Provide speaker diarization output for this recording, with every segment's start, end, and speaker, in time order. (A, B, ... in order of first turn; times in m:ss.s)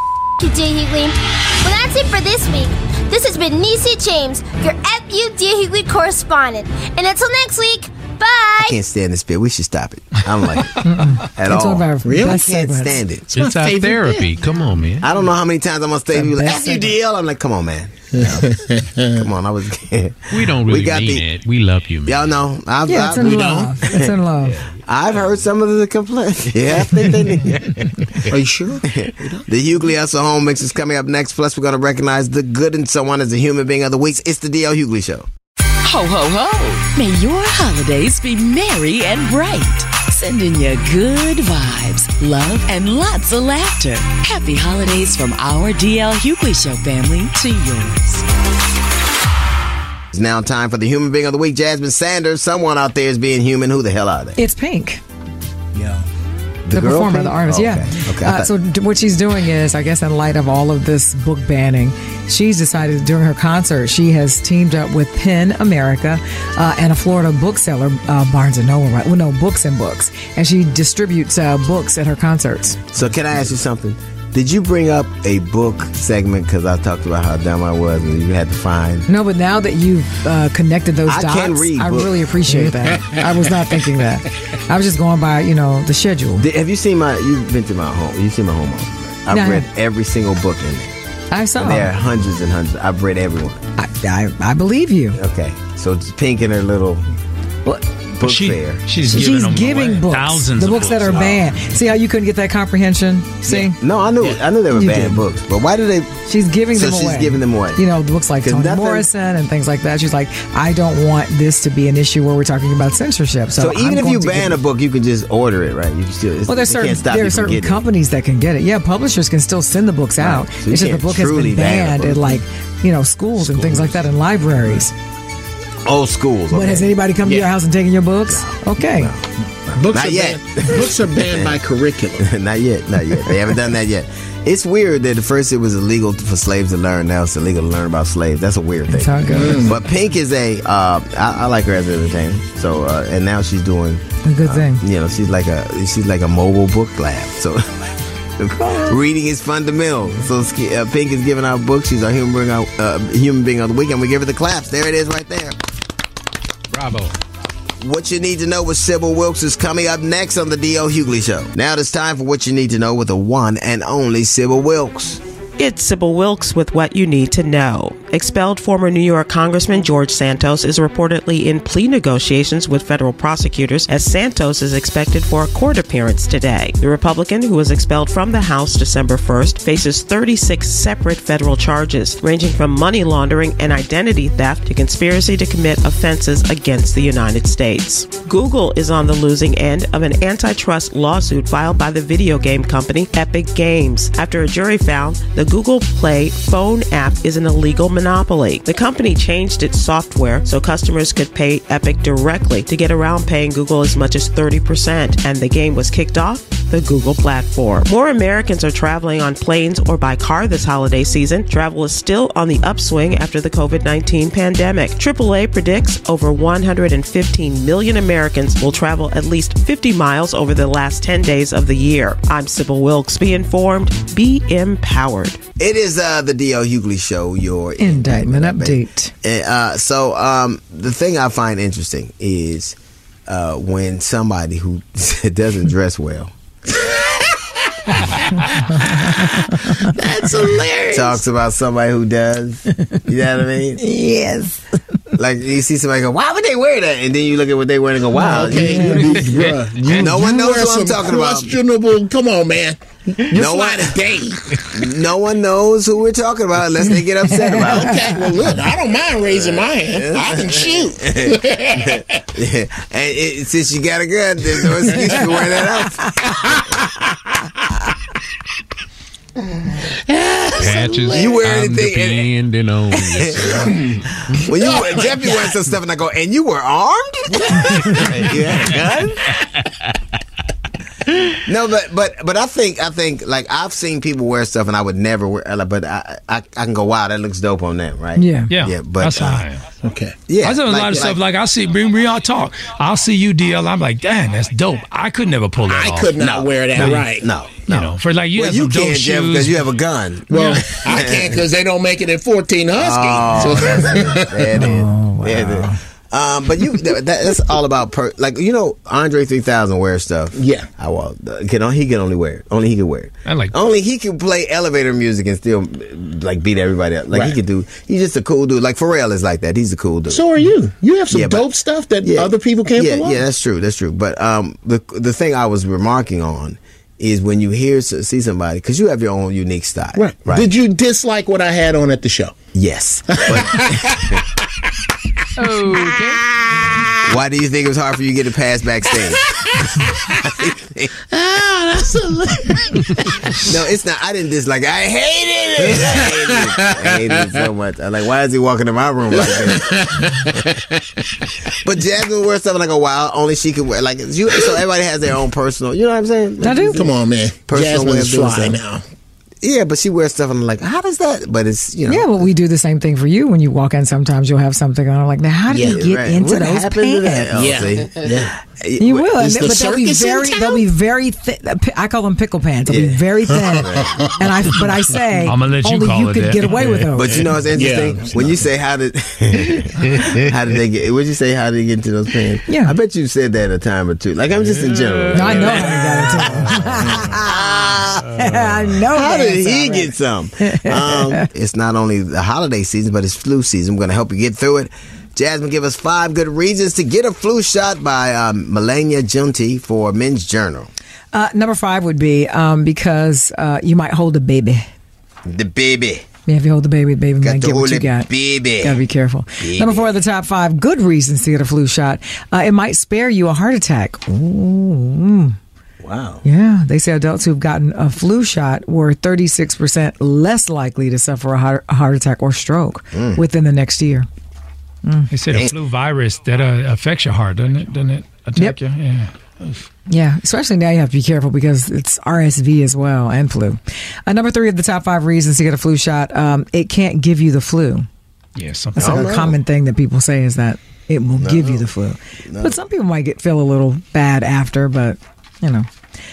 0:00.4-0:08.8 A
0:08.6-0:13.3 B
0:10.8-0:13.0 C
0:12.0-0:12.4 D
0:13.3-0:14.2 D
0:13.3-0:15.1 E
0:15.0-0:21.2 B
0:16.2-0:16.9 C
0:18.2-0:19.1 D
0:20.3-0:22.4 E
0:22.1-0:24.1 B
0:22.9-0:24.6 C
0:23.2-0:23.7 D
0:24.6-0:28.1 B
0:28.3-0:29.4 D
0:28.9-0:35.3 B
0:35.8-0:48.2 F
0:50.1-0:54.4 B
0:54.4-0:55.0 C
0:55.8-0:56.1 D
0:56.6-0:58.5 B
0:56.7-1:12.8 C
1:12.9-1:19.1 B
1:19.1-1:26.5 C
1:21.1-1:22.2 B
1:22.6-1:23.2 D
1:26.4-1:30.9 B
1:29.3-1:29.7 C
1:31.3-1:31.9 C
1:31.6-1:33.6 B
1:33.8-1:35.2 C
1:35.2-1:37.0 B
1:38.2-1:38.8 B
1:38.2-1:41.4 G
1:39.1-1:43.8 C
1:43.5-1:46.2 B
1:44.7-1:45.2 C
1:46.3-1:54.6 C
1:46.7-1:47.8 B
1:48.4-1:49.1 B
1:53.6-1:57.8 B
1:56.5-2:04.9 C
2:00.2-2:02.4 B
2:05.8-2:06.9 B
2:06.5-2:09.1 C
2:07.2-2:07.5 D
2:08.3-2:11.6 B
2:09.7-2:12.3 D
2:12.2-2:27.7 B
2:18.9-2:19.7 C
2:19.3-2:19.8 D
2:24.2-2:24.8 C
2:28.4-2:35.6 B
2:28.6-2:29.0 C
2:36.7-2:37.1 E
2:37.8-2:45.2 B
2:45.6-3:45.4 H
3:45.6-3:52.8 B
3:47.8-3:49.1 C
3:53.3-3:56.3 B
3:59.4-3:59.9 C
4:00.0-4:00.9 D
4:00.9-4:03.8 B
4:03.8-4:04.6 C
4:05.2-4:09.3 B
4:08.2-4:14.9 D
4:08.2-4:09.1 C
4:09.9-4:11.6 B
4:13.3-4:14.0 B
4:14.7-4:18.2 B
4:17.3-4:17.9 C
4:17.5-4:22.2 D
4:19.3-4:26.9 B
4:24.9-4:25.4 D
4:26.3-4:26.8 D
4:29.9-4:31.3 D
4:30.6-4:33.8 E
4:31.1-4:32.3 B
4:33.2-4:39.3 B
4:34.5-4:35.5 D
4:37.3-4:38.4 D
4:41.4-4:49.5 B
4:48.2-4:48.5 C
4:48.5-4:49.6 G
4:49.8-4:50.2 D
4:50.3-4:51.2 B
4:50.4-4:56.2 G
4:55.7-4:57.3 D
4:56.2-5:01.4 B
4:56.8-4:57.1 G
4:57.7-4:59.6 G
5:00.3-5:04.6 D
5:02.8-5:20.3 B
5:04.6-5:05.8 C
5:10.4-5:10.7 D
5:13.3-5:13.6 G
5:17.1-5:17.4 D
5:20.1-5:23.2 D
5:21.1-5:21.5 B
5:22.0-5:30.5 B
5:30.0-5:32.4 D
5:32.5-5:34.2 B
5:33.1-5:34.2 D
5:35.4-5:37.0 D
5:37.0-5:39.3 B
5:39.0-5:40.3 D
5:40.1-5:40.9 B
5:41.1-5:43.4 D
5:43.4-5:50.1 B
5:45.7-5:47.4 D
5:49.2-5:51.3 D
5:51.6-5:58.6 B
5:56.4-5:56.8 C
5:56.7-5:58.8 D
5:59.4-6:02.3 B
6:01.9-6:07.4 C
6:05.5-6:05.8 D
6:05.6-6:09.5 B
6:07.3-6:08.4 D
6:08.8-6:17.1 C
6:09.2-6:10.6 D
6:12.7-6:14.2 B
6:13.4-6:14.0 D
6:15.2-6:16.7 G
6:16.9-6:28.2 B
6:17.0-6:18.5 D
6:22.5-6:22.7 C
6:25.1-6:27.3 C
6:25.4-6:27.2 D
6:28.1-6:31.3 C
6:28.9-6:40.7 B
6:41.1-6:44.7 C
6:45.3-6:46.1 B
6:46.3-6:55.4 C
6:47.2-6:48.8 B
6:49.4-6:50.0 B
6:55.8-6:56.2 B
6:56.2-7:04.1 C
7:02.9-7:03.2 B
7:04.8-7:05.1 C
7:05.1-7:09.1 G
7:09.9-7:17.9 C
7:18.4-7:19.2 G
7:18.8-7:19.4 B
7:18.8-7:25.7 C
7:21.2-7:21.7 B
7:22.3-7:22.6 B